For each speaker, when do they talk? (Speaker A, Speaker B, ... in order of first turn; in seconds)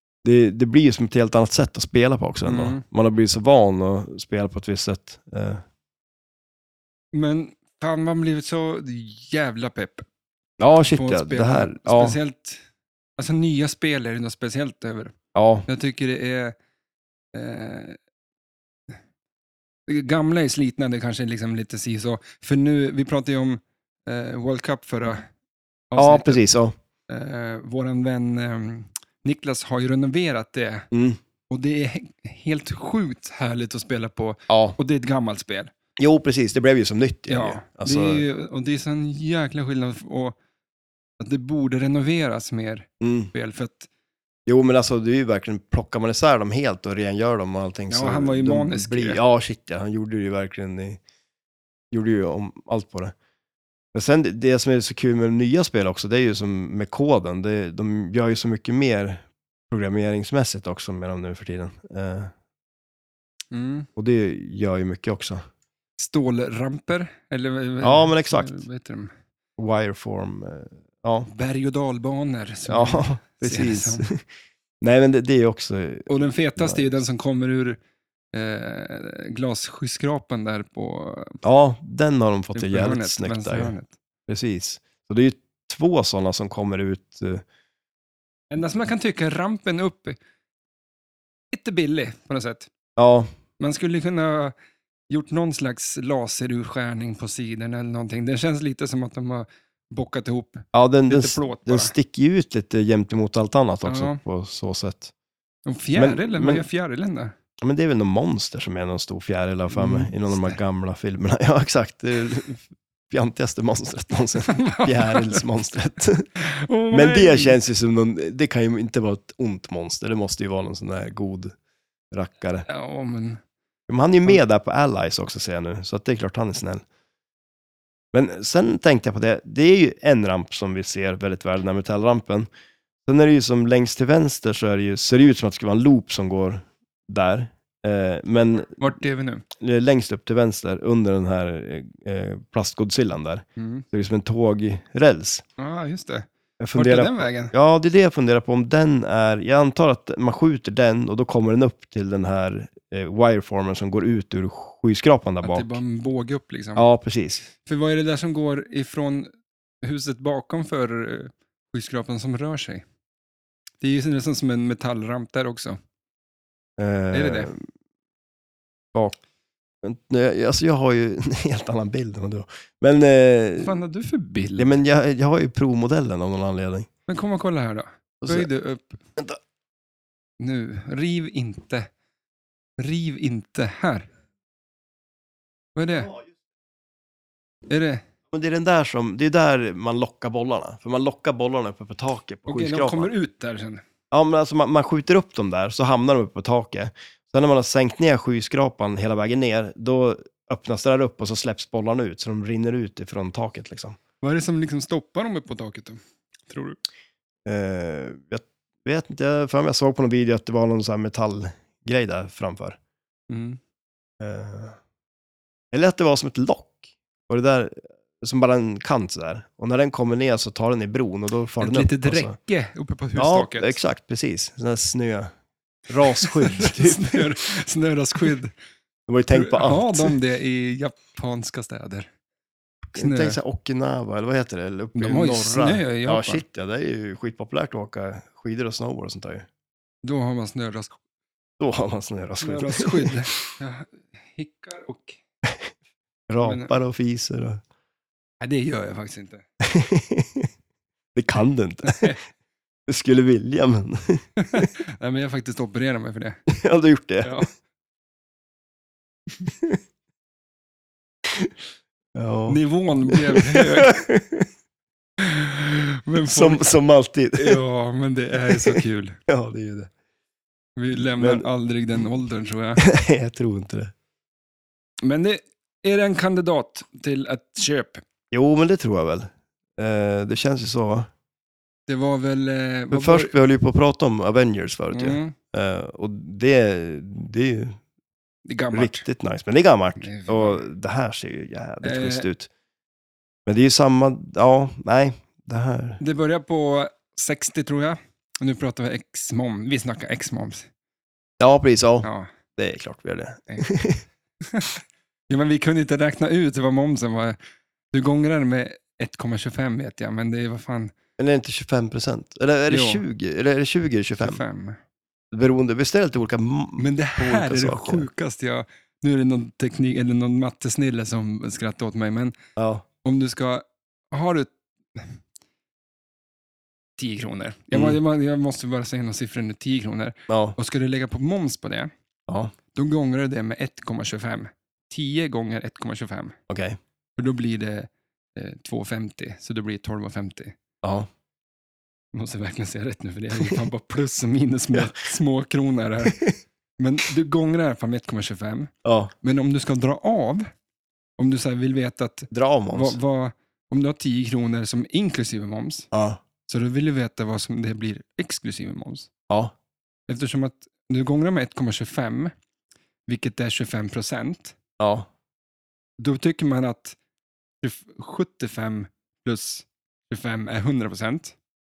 Speaker A: 0.2-5.6, 10.6-12.2, 15.3-15.7, 26.0-26.7, 30.9-31.2, 34.5-34.8, 36.0-38.2, 43.0-43.3, 44.5-51.0, 51.9-53.1, 53.9-62.3, 64.0-65.4, 67.8-68.6, 69.6-71.3, 72.7-74.2, 74.8-77.0, 81.4-83.7, 84.3-87.4, 93.0-93.3, 100.7-105.1, 106.0-106.6, 107.6-116.3, 116.9-121.5, 122.1-122.6, 123.9-126.8, 128.1-132.5, 133.0-138.8, 139.6-145.4, 146.6-155.8, 156.8-157.5, 166.8-167.6, 169.8-173.7, 174.6-176.9, 178.2-178.5, 188.3-193.1, 194.1-204.0, 207.4-212.8, 214.2-214.8, 215.7-222.3, 223.2-225.3, 225.9-227.3, 229.1-230.2, 232.9-239.5, 241.6-243.4, 246.3-247.6, 249.6-250.5, 251.1-252.1, 252.9-254.7, 256.5-257.4, 259.5-259.8, 261.3-261.5, 262.1-264.5, 266.3-267.6, 268.4-269.9, 270.9-271.5, 272.8-273.9, 278.3-281.1, 282.9-287.8, 288.7-292.5, 293.4-296.0, 301.4-304.0, 311.2-314.4, 315.3-318.1, 322.6-322.8, 327.7-328.0, 330.3-330.6, 332.3-332.5, 336.5-336.8, 340.8-341.1, 346.1-346.3, 348.8-349.1, 352.3-353.0, 355.9-356.2, 364.8-365.1
Speaker B: 2.5-2.8, 7.1-10.1, 10.9-12.6, 13.2-15.1, 15.7-16.5, 17.3-18.0, 19.9-25.2, 25.9-26.4, 27.1-30.9, 31.5-35.7, 37.3-40.4, 41.2-43.9, 47.9-49.2, 63.5-63.9, 66.0-69.1, 71.3-74.1, 76.1-77.8, 78.3-81.4, 82.5-83.9, 88.5-90.2, 91.5-92.7, 93.6-94.5, 95.1-101.9, 103.8-104.2, 105.7-107.3, 109.7-110.6, 114.5-115.4, 116.4-117.6, 122.7-123.4, 138.8-139.4, 143.6-143.8, 145.6-147.5, 155.4-156.9, 157.6-159.3, 159.8-162.8, 163.8-165.8, 167.1-167.5, 173.6-174.7, 177.1-179.0, 180.4-181.9, 182.8-184.1, 185.8-186.2, 187.7-188.0, 192.5-193.8, 204.2-206.8, 213.3-213.6, 221.6-223.8, 226.1-228.5, 229.3-232.1, 233.0-233.4, 234.9-236.4, 240.0-240.9, 242.4-245.2, 246.4-246.7, 248.4-249.4, 251.8-252.2, 254.4-256.4, 257.2-257.5, 262.5-264.0, 265.2-266.7, 267.4-269.2, 270.8-272.9, 275.0-278.0, 281.9-283.3, 284.9-285.3, 288.4-289.0, 290.0-290.6, 291.8-292.3, 296.0-300.7, 302.0-302.3, 304.5-307.4, 307.9-310.9, 312.7-313.0, 314.2-314.8, 316.8-322.3, 323.0-325.2, 327.0-331.9, 332.7-336.4, 337.2-340.5, 342.1-346.2, 346.8-350.5, 351.2-355.9, 356.5-359.1, 360.1-362.3, 363.1-364.6, 366.0-367.0, 367.6-371.3